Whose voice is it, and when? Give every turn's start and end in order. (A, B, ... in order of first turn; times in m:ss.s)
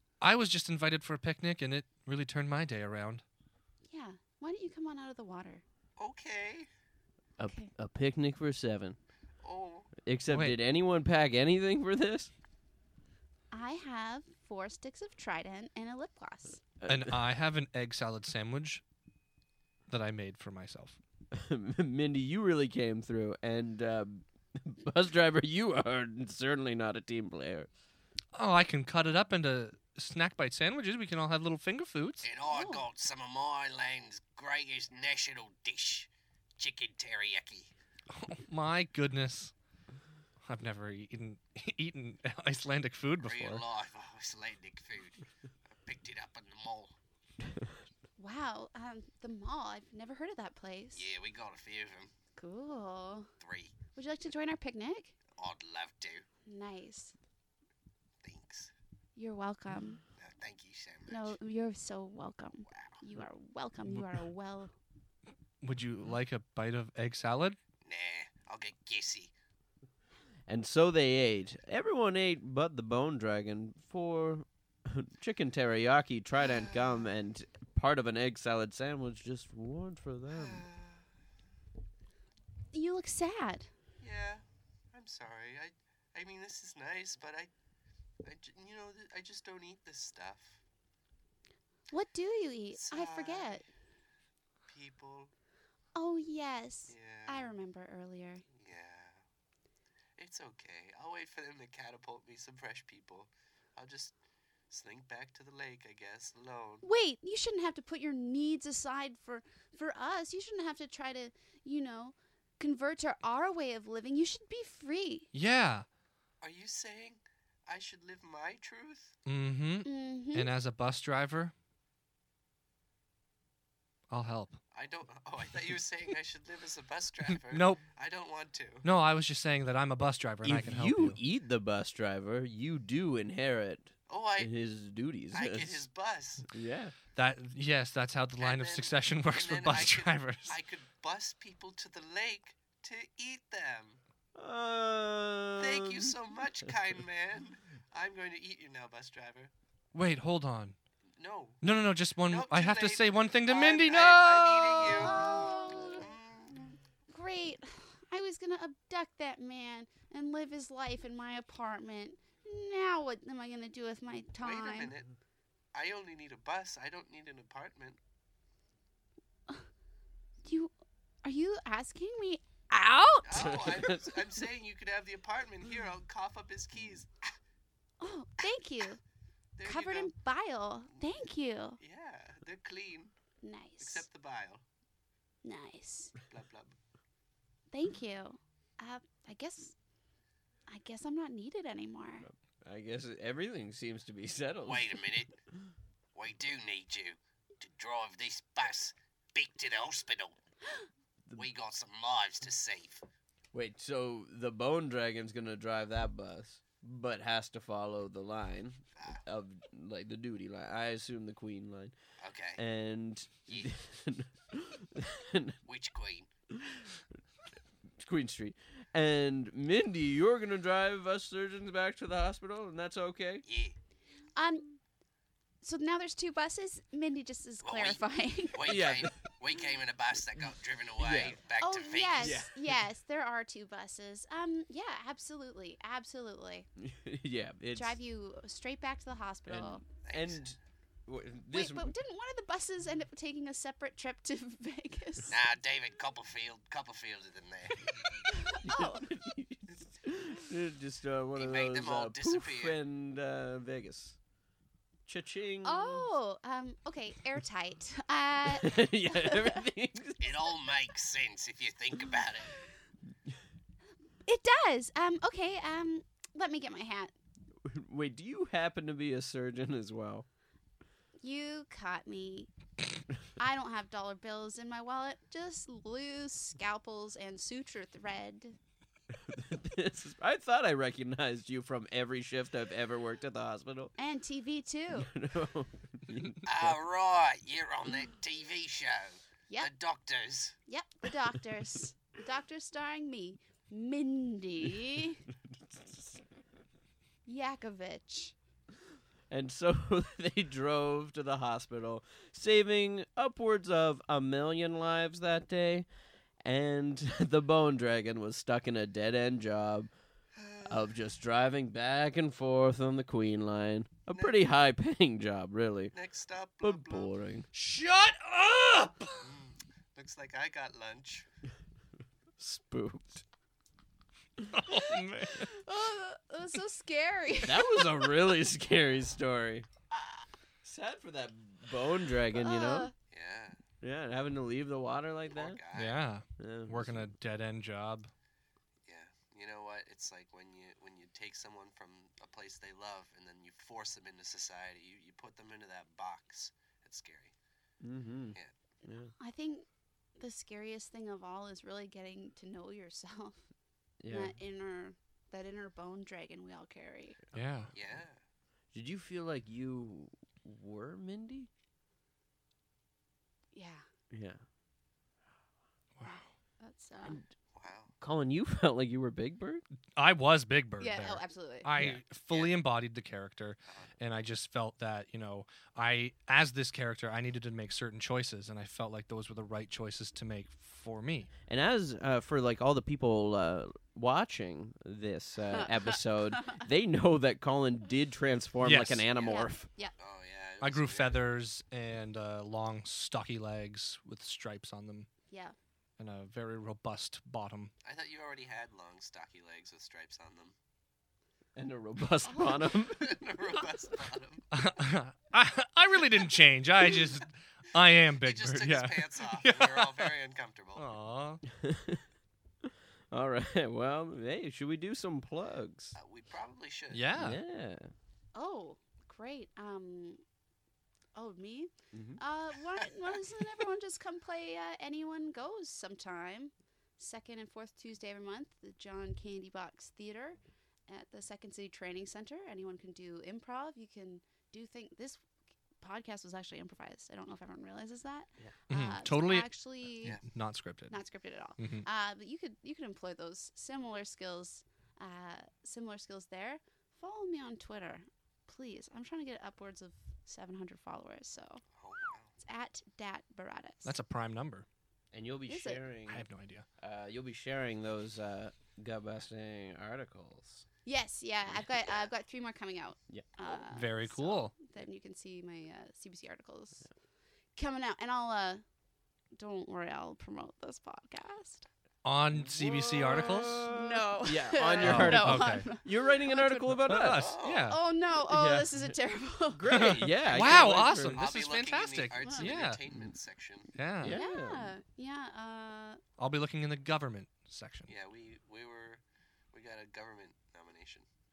0:00.2-0:03.2 A
0:03.9-0:05.6 B
0:06.0-0:06.7 C
0:07.4-0:09.0 D
0:07.4-0:07.7 B
0:09.4-0:09.9 C
0:10.0-0:12.3 D
0:10.3-0:10.6 A
0:13.5-0:16.6 B
0:16.8-0:17.2 D
0:16.9-0:18.8 A
0:19.9-0:21.0 A
0:21.3-0:27.7 D
0:28.3-0:32.3 A
0:32.2-0:37.7 C
0:32.5-0:32.8 B
0:38.1-0:39.5 A
0:40.4-0:43.6 A
0:43.2-0:46.9 C
0:47.4-0:47.7 D
0:48.2-0:51.1 B
0:50.9-0:52.1 C
0:52.4-0:53.3 B
0:53.4-0:53.8 C
0:53.9-0:55.1 B
0:55.3-0:56.2 C
0:56.4-0:57.1 B
0:58.2-0:58.7 C
0:59.2-1:00.0 B
1:00.2-1:01.4 C
1:01.1-1:04.7 B
1:05.6-1:07.6 A
1:07.8-1:09.3 C
1:10.5-1:20.6 D
1:16.4-1:17.0 C
1:20.3-1:21.0 C
1:22.7-1:23.7 B
1:24.0-1:24.4 C
1:24.9-1:27.5 C
1:28.2-1:30.6 C
1:31.9-1:33.6 B
1:32.7-1:33.6 C
1:34.6-1:35.3 C
1:35.9-1:38.4 B
1:36.9-1:37.5 C
1:38.5-1:39.2 C
1:40.2-1:44.1 C
1:44.7-1:46.8 C
1:46.8-1:55.3 B
1:55.3-1:55.8 A
1:56.4-1:59.2 C
1:59.2-2:01.5 A
1:59.8-2:00.5 B
2:04.1-2:04.6 A
2:04.7-2:08.8 C
2:07.5-2:07.8 A
2:08.8-2:11.2 A
2:10.4-2:15.8 D
2:14.1-2:14.5 C
2:15.3-2:16.5 C
2:16.5-2:16.9 D
2:17.1-2:20.6 A
2:18.4-2:24.0 C
2:24.3-2:26.2 D
2:25.6-2:29.5 C
2:29.9-2:30.8 A
2:31.2-2:31.6 C
2:31.6-2:35.2 A
2:32.3-2:36.7 C
2:34.9-2:36.1 B
2:37.1-2:44.9 B
2:44.4-2:45.1 C
2:45.7-2:48.0 C
2:50.4-2:50.7 B
2:51.2-2:53.7 B
2:53.2-2:57.1 C
2:53.3-2:54.2 D
2:58.0-2:59.0 B
2:59.6-3:00.1 C
2:59.6-3:01.8 B
3:01.8-3:03.1 C
3:03.4-3:04.0 B
3:03.8-3:04.6 C
3:05.4-3:06.1 B
3:06.3-3:06.7 C
3:07.7-3:09.7 B
3:10.7-3:12.3 B
3:12.3-3:15.0 D
3:14.6-3:15.3 C
3:16.1-3:20.4 C
3:21.4-3:23.0 C
3:23.5-3:31.9 D
3:29.0-3:29.2 C
3:32.2-3:32.6 C
3:32.6-3:35.6 D
3:35.7-3:36.3 C
3:36.6-3:36.8 D
3:38.0-3:43.4 D
3:43.4-3:43.8 C
3:44.4-3:44.8 B
3:45.6-3:48.7 B
3:47.6-3:48.0 C
3:48.5-3:52.4 C
3:48.6-3:49.3 D
3:50.4-3:51.4 D
3:51.6-3:56.7 B
3:52.2-3:52.8 D
3:56.8-3:57.9 D
3:57.7-3:59.8 B
3:59.5-4:01.9 D
4:00.0-4:00.4 C
4:01.5-4:05.3 B
4:05.3-4:07.9 C
4:08.3-4:09.0 B
4:08.6-4:14.2 D
4:11.4-4:12.8 C
4:15.1-4:16.1 D
4:15.6-4:19.6 B
4:18.4-4:20.2 D
4:20.2-4:22.6 C
4:24.2-4:27.1 B
4:27.6-4:30.2 D
4:31.2-4:32.5 B
4:33.4-4:38.6 B
4:39.1-4:43.9 D
4:44.0-4:45.1 B
4:45.0-4:46.8 D
4:46.4-4:50.6 C
4:50.7-4:55.2 B
4:55.7-4:56.2 D
4:57.2-4:58.3 B
4:59.3-5:05.9 D
5:06.4-5:09.9 D
5:10.4-5:10.8 C
5:10.6-5:15.9 D
5:14.1-5:14.4 C
5:15.9-5:17.1 C
5:16.6-5:17.5 D
5:17.5-5:19.2 A
5:19.2-5:21.2 C
5:22.4-5:23.2 D
5:24.4-5:25.5 A
5:25.3-5:28.1 B
5:27.4-5:29.7 D
5:30.6-5:32.9 D
5:32.3-5:32.9 B
5:33.1-5:33.6 C
5:33.8-5:35.6 D
5:35.3-5:36.0 C
5:35.7-5:38.1 A
5:36.4-5:37.1 D
5:38.9-5:47.3 C
5:47.8-5:49.1 D
5:49.2-5:49.6 B
5:50.2-5:53.4 B
5:54.0-5:54.3 D
5:54.1-5:57.2 B
5:57.3-5:57.7 A
5:57.7-5:58.1 C
5:58.7-6:01.5 D
6:03.5-6:03.8 B
6:04.1-6:04.4 D
6:06.0-6:06.2 A
6:06.1-6:07.2 B
6:07.5-6:07.9 C
6:08.0-6:09.6 D
6:10.0-6:21.3 A
6:10.8-6:11.7 B
6:11.8-6:12.0 D
6:21.5-6:29.7 D
6:25.5-6:26.6 B
6:28.6-6:29.1 A
6:29.2-6:29.9 B
6:30.0-6:31.2 C
6:30.6-6:35.1 A
6:35.3-6:35.5 B
6:36.0-6:37.7 A
6:37.8-6:40.5 C
6:41.5-6:43.2 D
6:42.7-6:44.4 C
6:44.5-6:50.1 A
6:48.0-6:50.9 C
6:50.8-6:51.4 A
6:51.5-6:52.0 D
6:52.6-6:56.0 D
6:56.0-6:57.0 C
6:56.9-6:57.4 A
6:57.1-6:57.9 D
6:58.3-7:00.2 B
7:01.1-7:15.2 B
7:01.9-7:02.2 D
7:15.8-7:20.2 B
7:18.7-7:19.5 A
7:20.0-7:21.0 A
7:20.9-7:31.6 B
7:21.6-7:21.8 A
7:31.8-7:32.3 C
7:32.4-7:33.9 B
7:33.8-7:34.6 A
7:35.1-7:36.2 D
7:35.5-7:35.8 B
7:36.1-7:36.6 A
7:36.8-7:40.6 D
7:40.8-7:46.9 B
7:41.6-7:42.1 C
7:43.7-7:44.5 A
7:47.6-7:48.6 B
7:49.3-7:51.7 B
7:52.0-7:53.6 A
7:52.3-7:57.3 D
7:53.4-7:56.8 B
7:54.8-7:55.6 A
7:56.8-7:57.8 A
7:57.2-7:57.7 C
7:57.6-7:59.9 B
7:58.3-7:58.7 D
7:59.5-8:01.2 D
7:59.7-8:02.8 A
8:00.3-8:03.7 C
8:02.2-8:02.5 B
8:03.7-8:04.2 A
8:04.0-8:04.7 D
8:04.1-8:06.0 B
8:06.2-8:07.9 A
8:07.9-8:09.0 C
8:09.5-8:11.0 C